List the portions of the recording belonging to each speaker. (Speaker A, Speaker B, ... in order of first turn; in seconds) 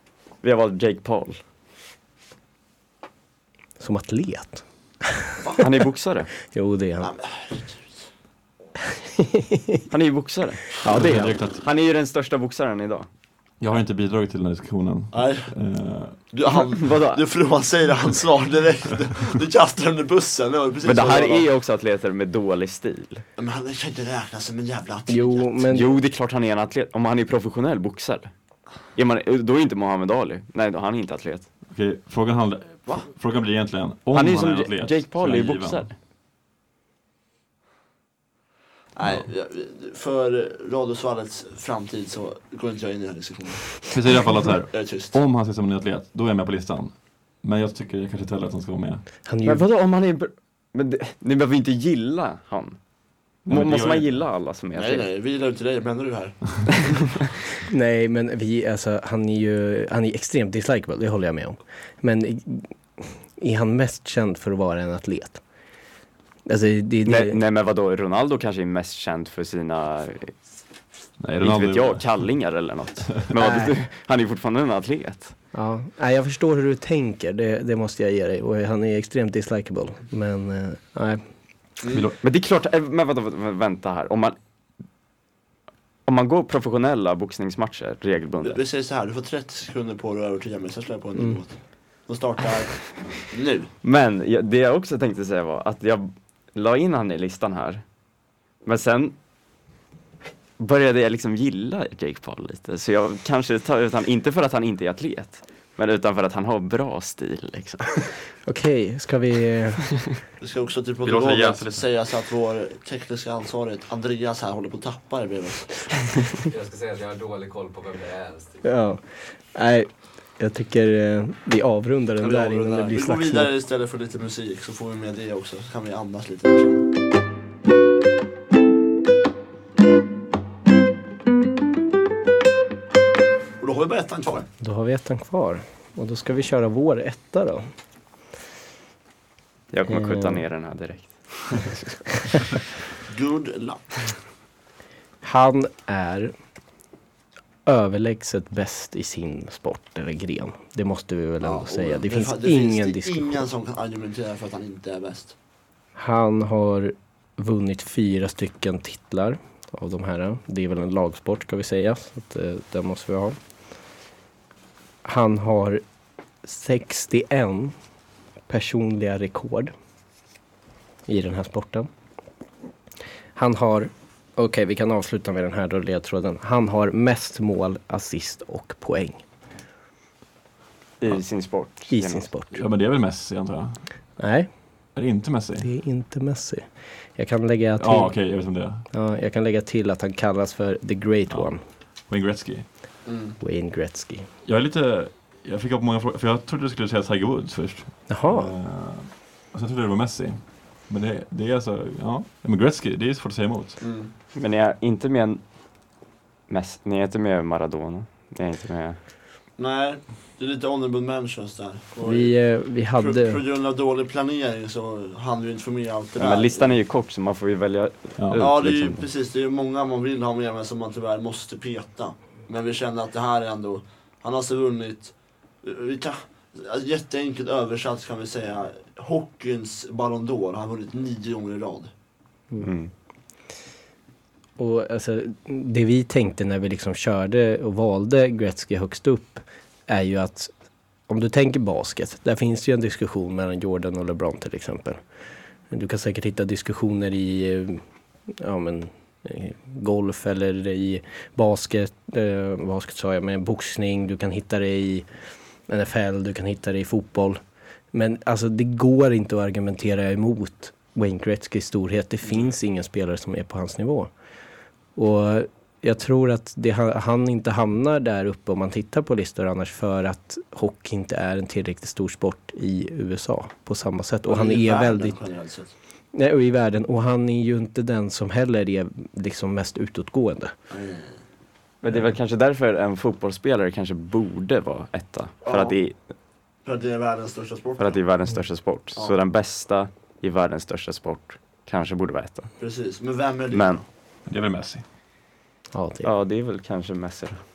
Speaker A: 0.4-1.4, 5.6-6.3, 9.9-13.1, 16.5-17.2, 20.9-23.2, 25.7-28.3, 28.9-31.5, 34.1-35.9, 49.4-52.8, 53.5-55.1, 67.1-70.4, 71.4-75.3, 82.2-84.4, 86.1-88.6, 93.8-97.8, 98.6-99.2, 100.6-108.2, 139.7-142.6, 181.0-182.3, 204.3-205.4, 206.5-209.0, 216.2-219.1, 232.6-232.9, 281.8-286.0, 287.8-292.6, 293.5-293.8, 296.0-297.4
Speaker B: 3.8-5.3, 6.5-7.1, 9.2-9.8, 10.8-11.3, 25.1-26.0, 49.3-49.6, 57.7-65.4, 66.5-67.4, 73.4-73.7, 75.5-81.2, 108.5-110.0, 118.6-123.5, 134.6-137.7, 139.9-140.4, 145.2-146.3, 147.7-153.5, 156.0-163.4, 165.0-165.8, 166.4-167.7, 168.5-169.7, 171.1-171.9, 173.3-179.2, 181.9-182.6, 184.2-184.5, 185.6-188.2, 188.9-191.6, 193.4-194.3, 198.1-198.5, 212.0-213.4, 234.6-240.5, 241.1-245.0, 245.7-255.1, 255.7-264.1, 265.0-275.2, 276.1-280.5, 295.7-296.1
Speaker C: 7.0-8.0, 15.1-15.6, 16.3-21.5, 23.4-25.6, 39.0-43.9, 44.7-45.1, 54.8-57.0, 81.8-82.1, 88.4-93.7, 110.4-116.0, 122.2-126.8, 133.6-134.5, 143.1-143.9, 151.4-155.3, 193.1-193.4, 203.8-204.1, 209.6-212.4, 212.9-216.8, 218.4-231.9, 274.2-275.7, 280.7-281.2, 285.4-285.8, 286.6-288.0, 292.6-293.8
Speaker D: 10.9-11.6, 13.6-16.2, 31.7-35.9, 43.9-49.0, 53.5-54.1, 71.2-72.1, 81.9-82.2, 111.0-111.8, 182.5-184.0, 184.9-185.7, 187.8-188.8, 191.3-192.7, 194.4-203.8, 294.3-294.8
Speaker E: 116.5-118.7